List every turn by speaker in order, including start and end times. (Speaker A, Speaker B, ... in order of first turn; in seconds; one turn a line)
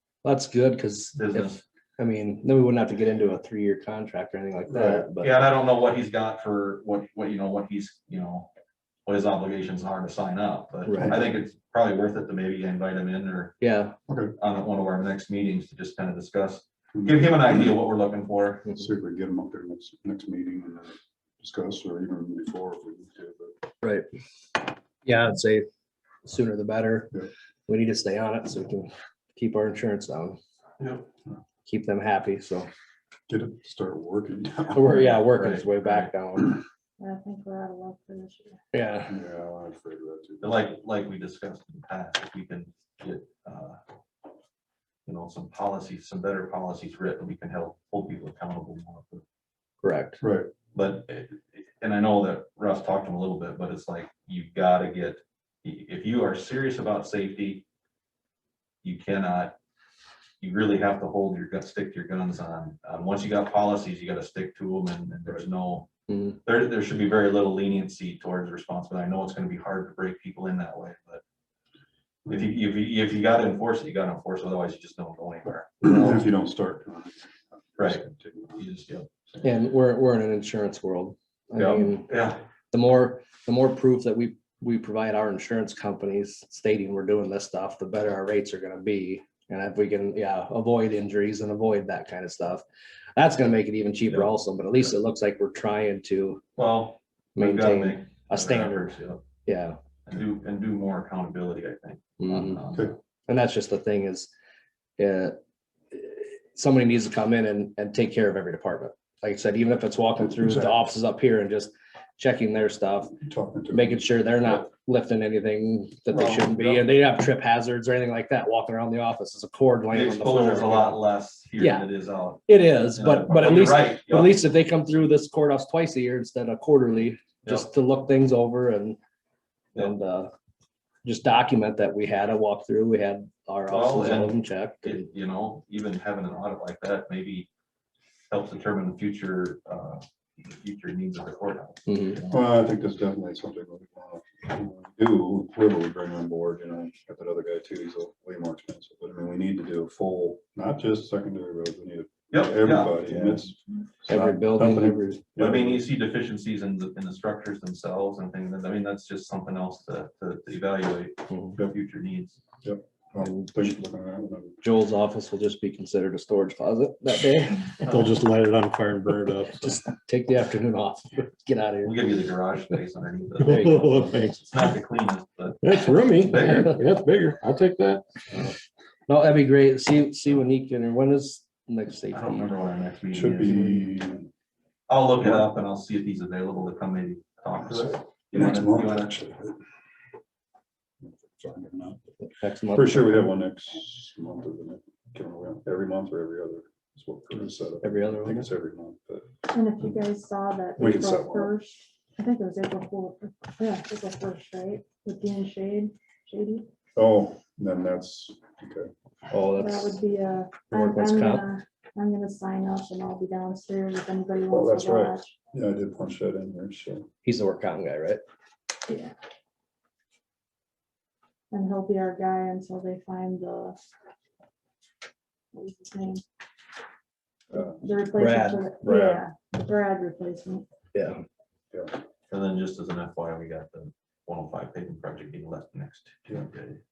Speaker A: 0.2-5.3
Speaker B: 1.1-1.6
Speaker C: 4.7-5.1
Speaker B: 5.2-8.5
Speaker B: 9.1-13.6
Speaker A: 10.8-11.2
Speaker A: 13.6-13.9
Speaker C: 14.1-14.3
Speaker B: 14.4-18.7
Speaker C: 16.9-17.7
Speaker C: 18.7-23.6
Speaker A: 25.0-25.6
Speaker A: 26.2-27.1
Speaker A: 27.7-30.4
Speaker B: 30.8-31.1
Speaker A: 31.6-32.7
Speaker C: 33.3-35.2
Speaker A: 34.7-36.6
Speaker B: 34.9-36.1
Speaker D: 37.0-38.6
Speaker A: 38.7-39.1
Speaker C: 39.1-40.5
Speaker B: 40.4-43.8
Speaker B: 45.0-49.2
Speaker A: 49.8-50.2
Speaker C: 50.2-50.5
Speaker B: 50.7-57.6
Speaker B: 58.8-59.5
Speaker B: 60.4-65.9
Speaker B: 66.4-71.2
Speaker B: 72.2-76.2
Speaker C: 75.8-78.7
Speaker B: 77.8-79.1
Speaker A: 79.4-82.1
Speaker B: 81.5-82.4
Speaker A: 82.7-92.6
Speaker A: 93.2-96.4
Speaker B: 96.6-99.2
Speaker A: 97.4-98.9
Speaker A: 99.4-99.8
Speaker B: 100.0-103.0
Speaker A: 102.2-102.6
Speaker A: 103.3-104.3
Speaker A: 105.0-105.3
Speaker A: 105.9-113.1
Speaker C: 110.2-110.8
Speaker C: 113.2-114.6
Speaker A: 113.7-121.0
Speaker B: 116.1-116.9
Speaker B: 119.9-124.4
Speaker A: 121.6-121.9
Speaker A: 122.5-129.0
Speaker A: 129.8-130.3
Speaker A: 131.0-135.0
Speaker B: 133.7-137.5
Speaker B: 138.3-142.6
Speaker A: 141.9-142.2
Speaker C: 142.3-155.8
Speaker B: 152.3-153.4
Speaker A: 154.1-155.2
Speaker B: 155.4-162.4
Speaker C: 162.6-164.6
Speaker A: 164.6-167.8
Speaker B: 167.8-168.1
Speaker E: 167.8-169.8
Speaker A: 169.6-172.0
Speaker B: 171.8-176.8
Speaker E: 173.4-174.7
Speaker A: 173.4-174.4
Speaker E: 175.6-178.4
Speaker A: 179.1-182.5
Speaker B: 182.1-183.9
Speaker C: 183.1-184.3
Speaker B: 184.9-189.2
Speaker C: 187.6-189.6
Speaker C: 191.0-192.0
Speaker A: 192.4-193.3
Speaker C: 192.7-199.3
Speaker A: 197.8-198.5
Speaker D: 199.5-206.7
Speaker C: 200.8-201.5
Speaker C: 206.9-208.9
Speaker A: 209.3-210.0
Speaker D: 209.6-215.3
Speaker A: 210.7-211.4
Speaker C: 214.5-217.1
Speaker A: 217.2-218.2
Speaker D: 218.9-219.1
Speaker D: 221.5-223.8
Speaker D: 225.5-226.2
Speaker D: 227.5-230.7
Speaker A: 228.2-228.7
Speaker C: 228.8-229.2
Speaker A: 230.9-231.2
Speaker B: 232.3-236.8